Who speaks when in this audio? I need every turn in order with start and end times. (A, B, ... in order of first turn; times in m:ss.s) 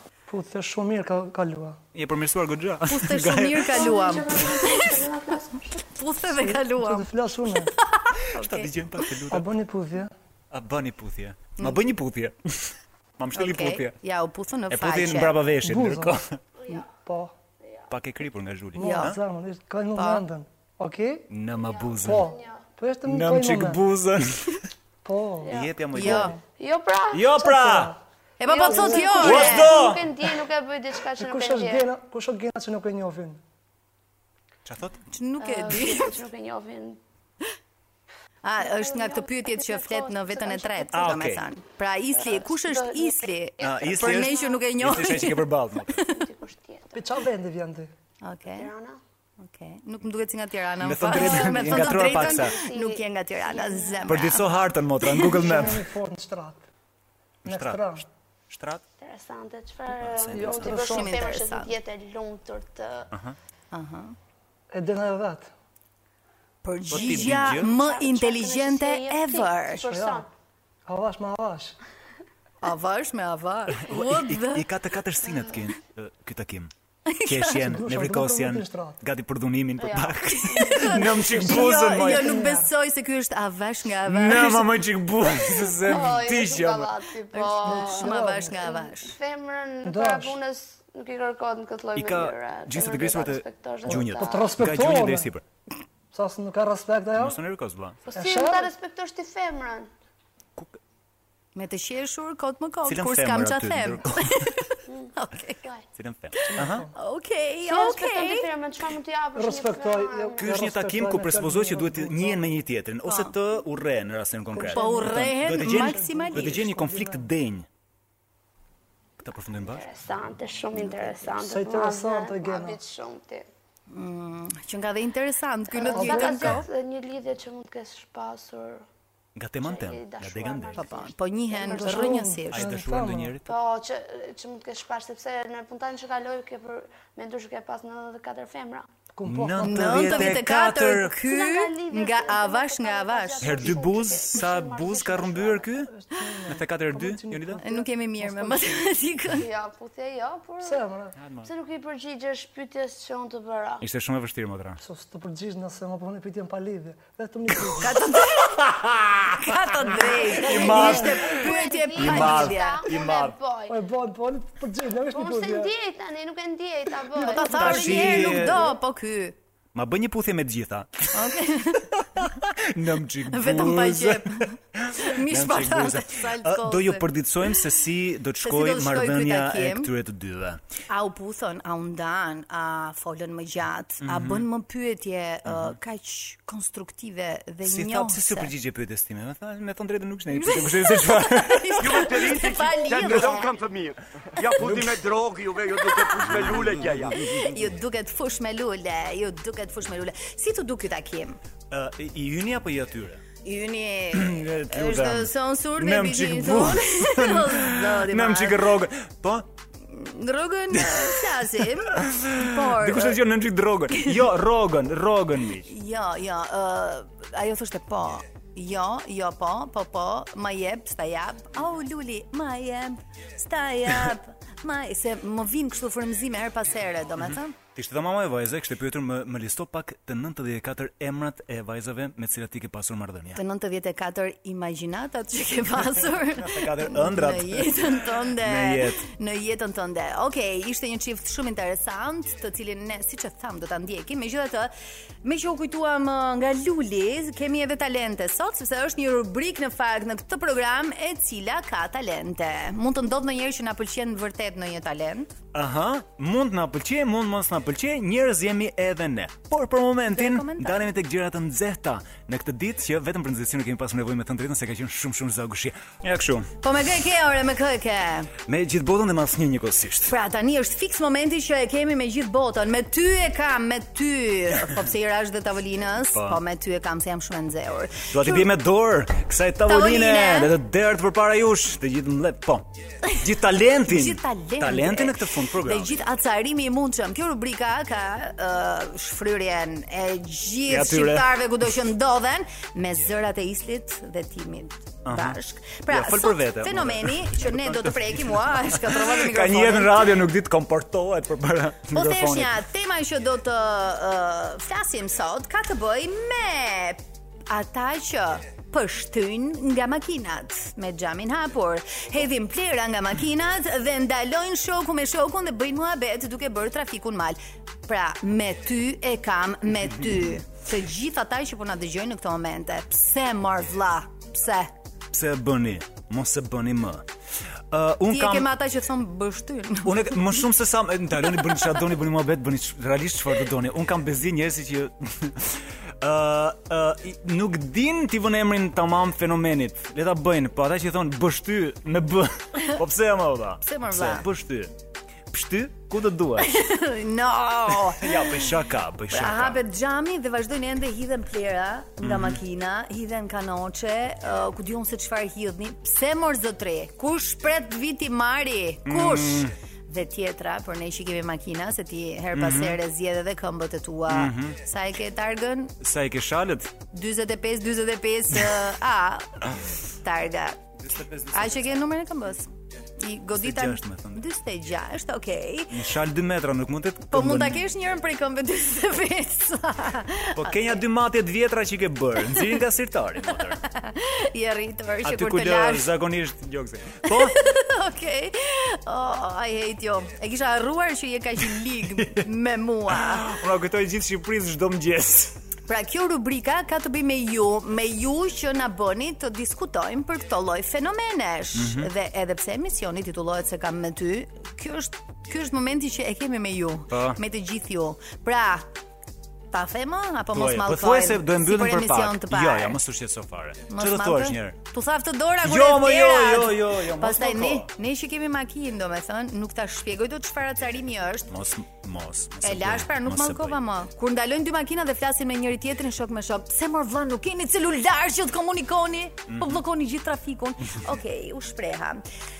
0:00.3-0:01.8 A
0:02.0-0:03.9 B
0:02.9-0:05.0 C
0:03.7-0:05.8 D
0:05.9-0:07.1 C
0:06.4-0:07.7 A
0:07.7-0:08.7 C
0:08.4-0:09.5 B
0:09.3-0:10.1 A
0:10.5-0:14.0 B
0:13.3-0:15.4 C
0:14.7-0:16.4 B
0:15.6-0:16.2 A
0:16.6-0:16.9 D
0:17.0-0:17.3 A
0:17.6-0:17.9 D
0:17.9-0:19.2 B
0:18.8-0:21.3 A
0:18.8-0:19.2 C
0:20.0-0:20.2 C
0:21.3-0:22.3 B
0:21.5-0:22.7 D
0:22.0-0:23.8 A
0:23.0-0:24.6 B
0:25.0-0:26.4 A
0:25.4-0:25.8 D
0:25.5-0:26.3 B
0:26.0-0:26.3 C
0:26.5-0:27.4 D
0:27.1-0:27.9 B
0:27.4-0:28.0 A
0:28.4-0:29.8 C
0:28.4-0:31.9 D
0:28.6-0:29.2 A
0:29.2-0:30.1 B
0:31.2-0:33.4 A
0:34.6-0:35.0 B
0:35.1-0:36.2 C
0:35.4-0:37.0 D
0:38.4-0:45.5 C
0:38.6-0:41.1 D
0:40.9-0:41.5 B
0:42.1-0:44.7 D
0:43.6-0:46.0 B
0:46.0-0:47.2 D
0:46.9-0:47.9 A
0:48.2-0:48.7 C
0:48.5-0:49.0 D
0:49.4-0:55.6 C
0:50.8-0:52.6 B
0:51.2-0:54.1 D
0:54.1-0:55.9 B
0:55.5-0:56.6 A
0:57.4-0:58.8 B
0:57.4-0:58.1 A
0:59.0-1:03.1 D
0:59.9-1:00.8 B
1:00.4-1:01.1 A
1:00.7-1:01.8 C
1:03.1-1:03.4 B
1:03.7-1:04.1 C
1:04.7-1:05.5 A
1:06.6-1:09.8 C
1:06.9-1:07.7 B
1:07.0-1:10.3 D
1:09.8-1:10.2 A
1:10.9-1:11.8 A
1:12.6-1:14.7 C
1:13.7-1:16.7 B
1:17.1-1:17.6 C
1:17.2-1:22.4 B
1:17.6-1:19.0 A
1:19.8-1:20.7 D
1:20.5-1:24.8 C
1:21.6-1:22.7 A
1:24.0-1:26.9 B
1:25.8-1:34.5 D
1:27.3-1:29.2 C
1:27.7-1:28.6 A
1:29.8-1:30.4 A
1:32.0-1:35.4 B
1:33.9-1:35.3 A
1:36.1-1:37.4 A
1:37.2-1:38.0 B
1:38.1-1:39.9 D
1:38.2-1:38.7 A
1:41.6-1:45.6 C
1:42.8-1:44.5 B
1:44.9-1:45.8 D
1:46.0-1:46.9 B
1:46.4-1:48.5 C
1:46.5-1:46.9 A
1:47.6-1:50.5 D
1:49.4-1:52.4 A
1:50.4-1:57.7 B
1:53.0-1:53.3 C
1:54.5-1:57.2 A
1:54.7-1:56.6 C
1:59.2-1:59.9 B
1:59.6-2:03.5 D
2:00.8-2:01.2 C
2:01.2-2:02.8 A
2:03.9-2:06.7 C
2:05.7-2:08.8 D
2:05.9-2:06.6 A
2:09.4-2:10.9 B
2:09.6-2:12.2 D
2:10.8-2:12.7 C
2:11.7-2:13.4 A
2:12.5-2:13.5 B
2:13.4-2:18.9 D
2:19.2-2:20.4 A
2:19.2-2:21.2 B
2:19.6-2:23.8 C
2:21.2-2:25.8 D
2:23.4-2:25.9 B
2:25.9-2:28.9 A
2:26.5-2:27.6 B
2:27.6-2:29.4 C
2:29.4-2:30.9 D
2:30.6-2:31.2 A
2:31.2-2:31.5 B
2:31.4-2:33.8 D
2:33.8-2:34.8 B
2:34.8-2:38.0 A
2:37.8-2:38.6 C
2:38.1-2:39.5 B
2:39.4-2:42.9 C
2:40.4-2:43.4 B
2:40.4-2:41.3 A
2:41.3-2:43.8 D
2:43.7-2:45.7 A
2:45.1-2:48.2 D
2:47.2-2:49.4 C
2:47.5-2:48.7 B
2:48.1-2:48.4 A
2:49.7-2:51.3 B
2:51.1-2:51.9 C
2:52.0-3:00.6 B
2:53.3-2:57.6 C
2:58.4-2:59.9 C
3:00.9-3:08.5 C
3:04.0-3:04.5 B
3:05.5-3:05.8 B
3:07.6-3:12.1 B
3:10.3-3:13.6 C
3:11.8-3:17.2 E
3:14.6-3:14.9 B
3:15.9-3:21.4 C
3:16.1-3:16.9 B
3:21.7-3:23.2 B
3:23.4-3:28.6 C
3:24.1-3:29.5 B
3:29.9-3:33.2 C
3:30.7-3:35.7 B
3:33.9-3:34.2 C
3:35.7-3:47.6 C
3:47.2-3:53.4 B
3:53.4-4:04.7 C
3:56.1-3:59.0 B
4:05.2-4:15.3 C
4:15.5-4:26.5 B
4:20.1-4:20.9 C
4:26.6-4:28.3 C
4:28.5-4:30.1 B
4:30.1-4:38.5 C
4:36.1-4:36.4 B
4:38.1-4:46.0 B
4:39.7-4:40.5 C
4:43.9-5:00.2 C
4:50.7-4:51.3 B
4:55.0-5:02.6 B
5:01.9-5:24.7 C
5:25.1-5:27.1 B
5:27.7-5:28.5 B
5:28.1-5:30.4 C
5:29.8-5:44.7 B
5:43.6-5:44.3 C
5:45.3-5:46.6 B
5:46.4-5:48.5 C
5:47.9-5:49.6 B
5:49.1-6:05.8 C
5:52.0-5:52.4 B
5:58.9-5:59.5 B
6:02.3-6:02.8 B
6:04.1-6:04.6 B
6:05.8-6:06.7 B
6:06.9-6:09.5 C
6:10.0-6:10.6 C
6:10.8-6:11.8 B
6:11.3-6:15.8 C
6:13.4-6:14.2 B
6:15.7-6:17.7 B
6:17.1-6:20.8 C
6:20.4-6:23.6 B
6:23.6-6:25.9 C
6:25.0-6:27.4 B
6:27.1-6:33.3 C
6:32.9-6:35.4 B
6:35.7-6:48.7 C
6:41.5-6:41.9 B
6:46.9-6:47.2 B
6:49.5-6:52.8 C
6:50.3-6:54.6 B
6:53.7-7:01.3 C
6:55.4-6:57.7 B
7:01.3-7:03.6 B
7:02.4-7:12.0 C
7:09.3-7:09.6 B